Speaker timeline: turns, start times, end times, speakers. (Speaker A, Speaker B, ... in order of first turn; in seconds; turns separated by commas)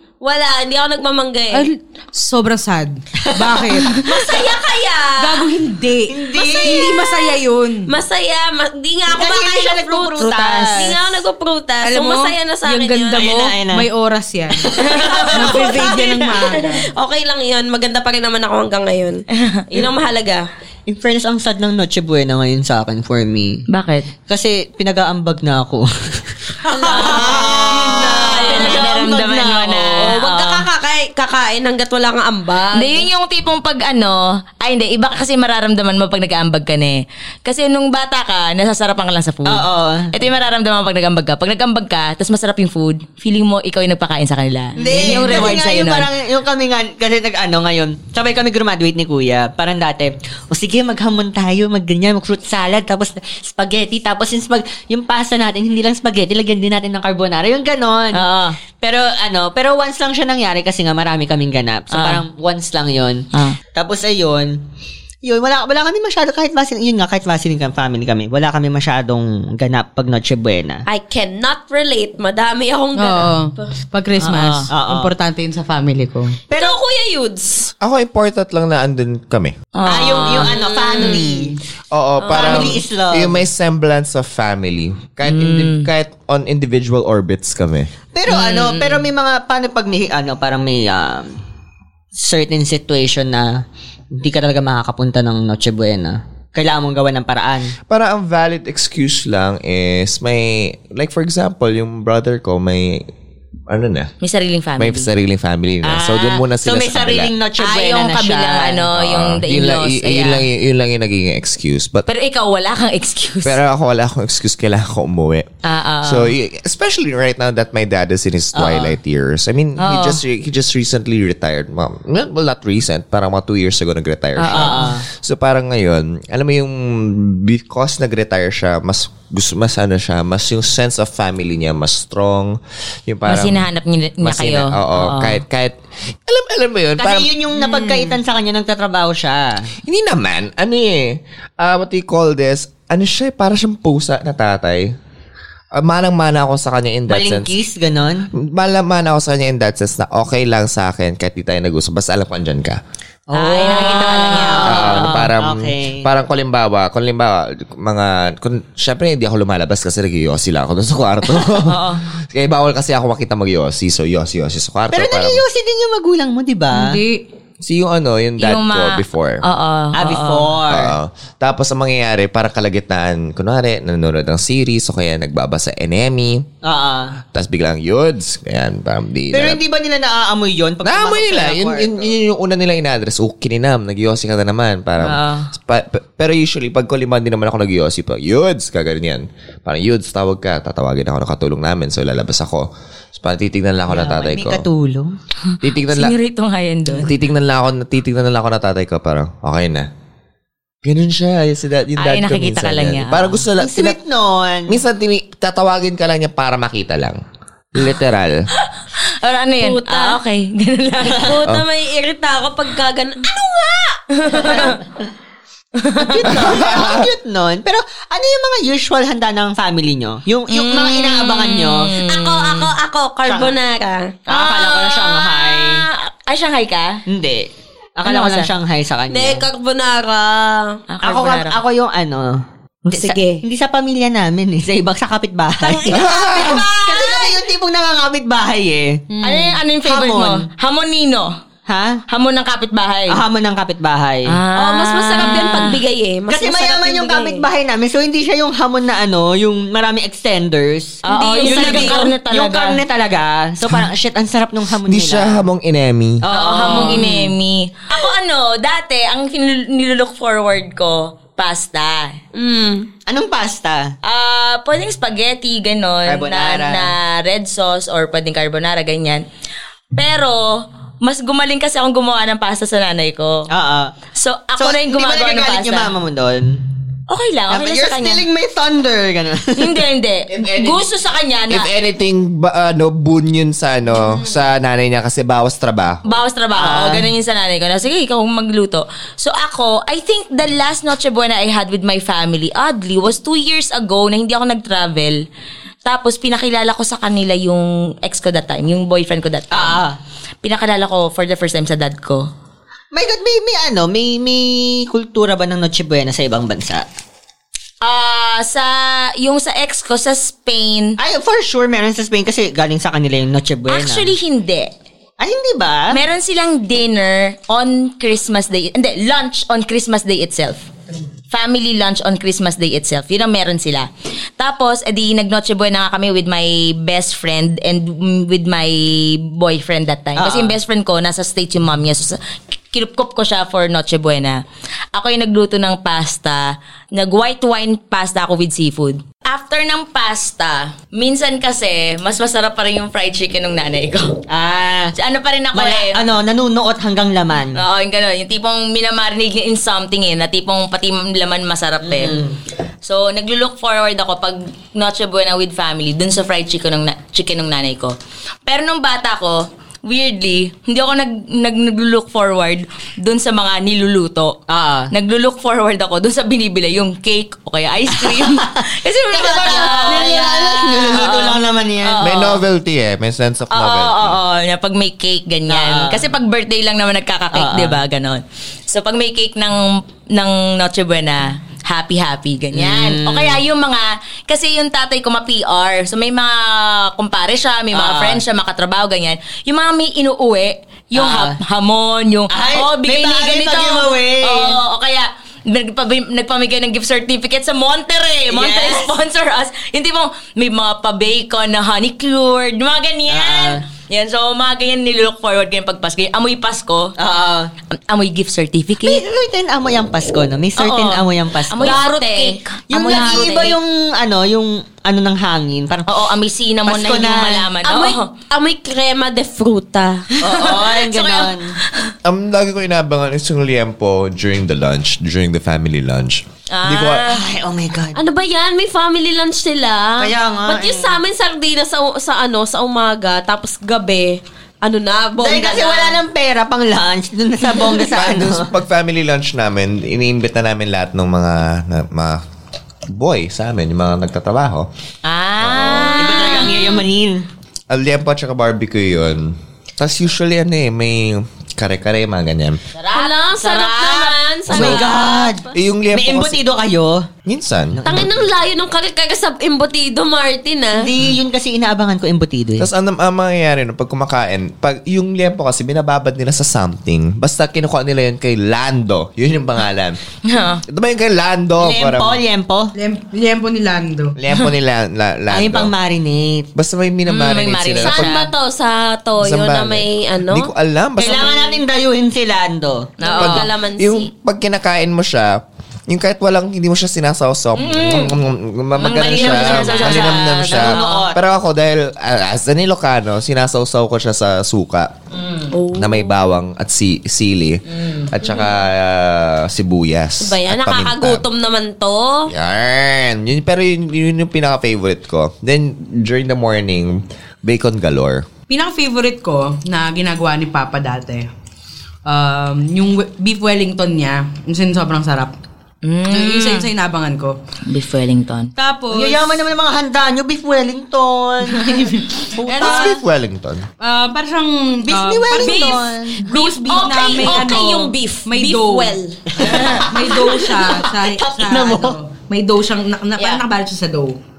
Speaker A: 0.2-1.6, Speaker B: 1.5-4.0, Speaker C: 3.2-4.4, Speaker A: 4.0-5.5, Speaker B: 5.2-7.9, Speaker C: 6.1-6.9, Speaker A: 6.3-13.2, Speaker C: 9.1-11.2, Speaker B: 11.8-14.8, Speaker C: 13.1-13.9, Speaker C: 14.6-15.8, Speaker A: 14.8-20.4, Speaker B: 15.3-16.9, Speaker C: 20.9-23.6, Speaker D: 23.7-24.1, Speaker C: 24.3-26.2, Speaker A: 26.7-28.8, Speaker C: 26.7-30.6, Speaker D: 26.9-30.1, Speaker A: 30.0-33.1, Speaker D: 32.7-46.1, Speaker C: 39.5-40.1, Speaker C: 44.8-58.2, Speaker D: 58.1-58.6, Speaker C: 58.8-64.6, Speaker D: 61.9-62.2, Speaker C: 65.2-70.8, Speaker A: 70.9-73.6, Speaker B: 73.0-76.4, Speaker D: 74.2-74.7, Speaker C: 74.7-75.1, Speaker C: 76.5-76.8, Speaker A: 76.5-77.7, Speaker E: 77.8-79.5, Speaker D: 79.7-80.5, Speaker C: 79.8-81.5, Speaker A: 80.3-81.5, Speaker E: 81.9-87.9, Speaker A: 82.2-82.8, Speaker C: 82.3-83.4, Speaker D: 85.3-85.9, Speaker C: 88.1-91.3, Speaker D: 88.3-89.0, Speaker C: 92.2-93.5, Speaker C: 94.1-97.7, Speaker E: 97.9-103.1, Speaker E: 103.7-104.1, Speaker D: 104.2-105.1, Speaker E: 104.8-107.3, Speaker C: 105.8-108.8, Speaker D: 107.6-110.4, Speaker E: 108.9-112.1, Speaker D: 112.1-113.6, Speaker E: 113.4-115.5, Speaker D: 115.6-116.3, Speaker E: 116.0-133.7, Speaker C: 118.5-119.0, Speaker D: 119.8-120.2, Speaker D: 124.4-124.9, Speaker C: 124.5-125.0, Speaker D: 133.3-135.4, Speaker E: 134.2-137.3, Speaker C: 137.0-139.7, Speaker B: 137.6-138.2, Speaker E: 139.8-144.9, Speaker E: 145.7-147.5, Speaker C: 147.1-148.3, Speaker E: 148.3-152.8, Speaker C: 153.3-156.0, Speaker D: 153.3-155.3, Speaker E: 154.4-165.4, Speaker D: 161.6-162.0, Speaker C: 164.9-167.0, Speaker B: 166.7-167.2, Speaker E: 167.6-169.4, Speaker D: 168.4-170.6, Speaker C: 169.9-170.9, Speaker E: 170.7-176.4, Speaker C: 176.6-177.1, Speaker E: 177.3-179.6, Speaker C: 179.3-182.1, Speaker E: 180.8-194.7, Speaker C: 185.0-185.5, Speaker C: 193.9-195.1, Speaker E: 195.6-196.2, Speaker D: 195.9-197.1, Speaker E: 196.9-199.9, Speaker E: 200.8-204.0, Speaker D: 202.0-203.4, Speaker C: 203.6-204.8, Speaker E: 204.7-207.2, Speaker E: 207.7-208.4, Speaker D: 209.2-211.3, Speaker A: 209.6-210.2, Speaker A: 211.1-214.8, Speaker D: 214.2-214.7, Speaker D: 215.8-216.3, Speaker C: 216.0-221.9, Speaker E: 216.3-217.1, Speaker D: 220.5-222.7, Speaker A: 222.1-224.2, Speaker C: 223.2-223.6, Speaker D: 224.3-227.0, Speaker C: 224.3-225.8, Speaker C: 227.1-229.4, Speaker D: 228.0-228.5, Speaker A: 229.1-230.8, Speaker D: 230.9-231.6, Speaker C: 231.0-239.0, Speaker A: 232.9-233.4, Speaker A: 235.7-236.6, Speaker E: 235.9-236.7, Speaker B: 239.1-239.5, Speaker D: 239.2-241.3, Speaker C: 239.8-240.4, Speaker C: 241.7-242.0, Speaker D: 242.1-243.2, Speaker C: 243.1-244.3, Speaker D: 244.3-245.8, Speaker A: 244.6-247.4, Speaker C: 246.3-255.4, Speaker D: 251.0-252.8, Speaker A: 251.4-252.0, Speaker E: 254.8-256.2, Speaker C: 256.2-257.3, Speaker D: 256.3-262.2, Speaker A: 262.3-262.9, Speaker C: 263.1-263.9, Speaker D: 264.0-269.2, Speaker C: 266.1-266.9, Speaker D: 269.9-273.5, Speaker C: 273.5-273.9, Speaker D: 274.1-275.9, Speaker C: 274.6-276.6, Speaker D: 277.1-278.2, Speaker C: 277.5-279.8, Speaker D: 279.6-281.7, Speaker E: 280.3-280.9, Speaker E: 281.5-286.0, Speaker D: 286.0-295.2, Speaker C: 286.6-287.1, Speaker D: 295.8-299.8, Speaker C: 299.5-300.0, Speaker D: 300.4-302.2, Speaker C: 302.9-306.8, Speaker D: 307.8-310.9, Speaker C: 311.0-314.1, Speaker D: 313.7-314.7, Speaker C: 315.2-315.9, Speaker D: 315.9-320.7, Speaker D: 321.3-323.9, Speaker D: 324.4-332.2, Speaker C: 330.2-330.6, Speaker D: 332.7-334.4, Speaker D: 334.9-344.2, Speaker C: 344.3-344.9, Speaker D: 344.9-346.0, Speaker C: 345.5-347.6, Speaker D: 347.5-352.2, Speaker C: 351.8-352.3, Speaker D: 352.8-357.9, Speaker D: 358.4-364.4, Speaker C: 364.5-364.9, Speaker D: 364.9-372.4, Speaker C: 368.0-368.5, Speaker C: 369.1-372.0, Speaker E: 372.0-374.2, Speaker D: 373.5-406.9, Speaker C: 375.5-376.1, Speaker C: 377.3-377.8, Speaker C: 382.5-383.4, Speaker C: 387.7-388.2, Speaker C: 390.9-391.4, Speaker C: 392.3-394.6, Speaker C: 398.3-398.9, Speaker C: 403.1-403.6, Speaker C: 407.0-407.5, Speaker D: 407.7-409.0, Speaker C: 408.8-411.8, Speaker D: 410.6-413.6, Speaker A: 411.6-413.4, Speaker C: 412.7-415.9, Speaker D: 415.9-418.1, Speaker C: 416.7-417.5, Speaker A: 417.6-420.1, Speaker C: 420.2-421.5, Speaker D: 420.2-421.8, Speaker E: 422.0-427.0, Speaker D: 426.5-427.2, Speaker C: 427.1-428.0, Speaker A: 427.9-436.0, Speaker C: 430.0-431.0, Speaker C: 435.2-438.5, Speaker E: 437.9-442.2, Speaker E: 442.9-444.7, Speaker D: 445.1-446.8, Speaker E: 445.4-446.1, Speaker C: 446.0-447.2, Speaker E: 447.7-452.6, Speaker D: 452.7-454.7, Speaker A: 452.9-455.3, Speaker C: 454.5-457.1, Speaker E: 454.5-454.9, Speaker E: 455.5-456.4, Speaker E: 457.2-457.8, Speaker C: 457.7-458.2, Speaker A: 457.9-460.8, Speaker C: 460.8-462.7, Speaker E: 462.6-470.0, Speaker D: 470.3-470.6, Speaker E: 470.7-472.2, Speaker C: 471.6-472.7, Speaker B: 472.7-474.2, Speaker E: 474.2-475.7, Speaker C: 475.3-476.5, Speaker E: 476.5-478.1, Speaker D: 477.1-478.3, Speaker A: 477.8-480.5, Speaker E: 479.2-481.3, Speaker C: 481.0-482.9, Speaker D: 483.0-483.4, Speaker A: 483.0-484.1, Speaker E: 483.2-494.9, Speaker D: 487.6-488.1, Speaker D: 488.8-491.1, Speaker C: 488.9-491.2, Speaker D: 495.1-495.5, Speaker A: 495.5-496.1, Speaker E: 495.7-501.2, Speaker D: 497.7-498.1, Speaker A: 500.2-502.3, Speaker E: 502.3-508.3, Speaker B: 508.5-511.3, Speaker B: 512.0-515.3, Speaker D: 515.8-516.7, Speaker B: 516.1-517.4, Speaker D: 517.7-518.5, Speaker B: 518.6-519.3, Speaker C: 518.9-523.0, Speaker B: 521.5-522.9, Speaker E: 522.6-523.6, Speaker B: 523.8-529.0, Speaker C: 524.9-526.2, Speaker A: 526.3-529.2, Speaker D: 526.3-527.8, Speaker C: 529.4-532.0, Speaker D: 529.4-529.9, Speaker B: 529.8-534.2, Speaker D: 533.2-533.4